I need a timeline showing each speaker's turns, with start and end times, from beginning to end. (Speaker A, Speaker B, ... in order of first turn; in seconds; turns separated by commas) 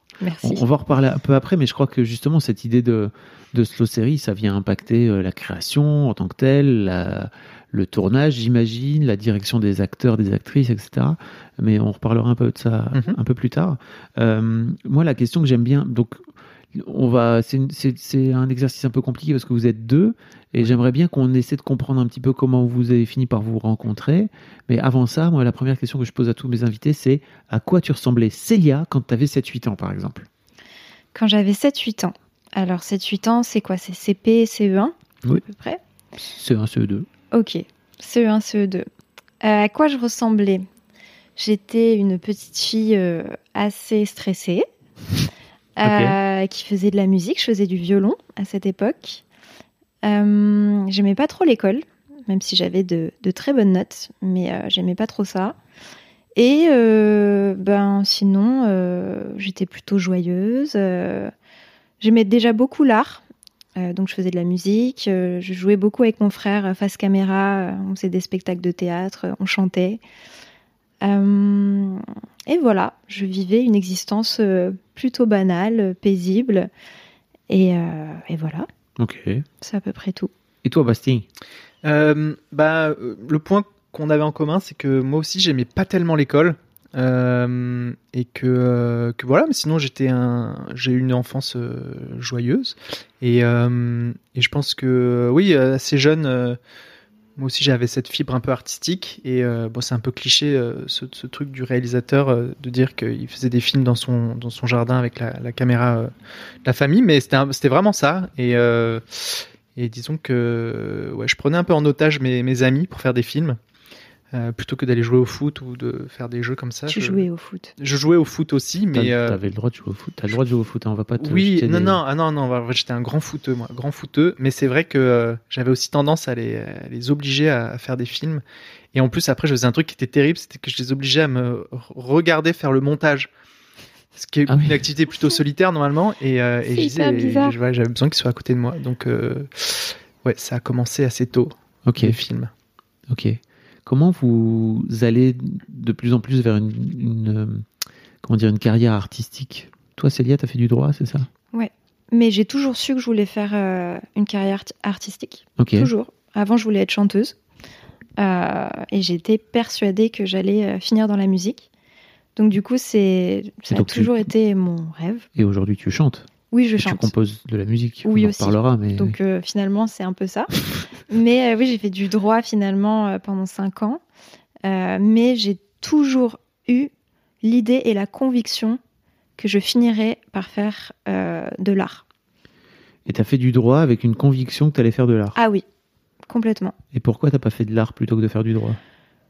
Speaker A: 0.2-0.6, Speaker B: 0.4-16.2, Speaker B: 16.7-30.3, Speaker A: 31.1-35.8, Speaker B: 36.4-37.1, Speaker A: 37.3-38.9, Speaker A: 39.4-40.7, Speaker A: 41.4-44.7, Speaker A: 45.8-49.2, Speaker B: 45.8-46.2, Speaker A: 50.0-55.6, Speaker A: 56.4-61.3, Speaker A: 62.0-63.2, Speaker A: 63.8-70.0, Speaker A: 71.0-76.7, Speaker A: 77.5-78.7, Speaker B: 79.0-79.5, Speaker A: 79.6-80.3, Speaker B: 80.6-81.3, Speaker C: 81.8-96.6, Speaker C: 97.4-106.1, Speaker C: 106.7-113.6, Speaker C: 114.3-117.2, Speaker A: 116.9-117.7, Speaker C: 117.8-119.4, Speaker B: 118.9-122.0, Speaker C: 121.2-128.4, Speaker C: 128.9-133.3, Speaker C: 134.2-142.5, Speaker B: 134.5-134.8, Speaker A: 136.7-137.5, Speaker B: 141.9-142.2, Speaker B: 143.1-147.7, Speaker B: 148.2-151.3, Speaker A: 151.5-157.3, Speaker B: 155.6-155.9, Speaker A: 158.2-161.7, Speaker A: 162.4-165.3, Speaker B: 163.7-164.3, Speaker B: 165.3-166.3, Speaker A: 166.5-167.1, Speaker B: 166.8-169.2, Speaker A: 168.1-170.5, Speaker A: 171.1-174.0, Speaker A: 174.7-176.9, Speaker A: 177.4-178.8, Speaker A: 179.4-182.0, Speaker B: 183.1-185.4, Speaker A: 185.4-185.6, Speaker A: 186.3-186.8, Speaker B: 186.9-188.8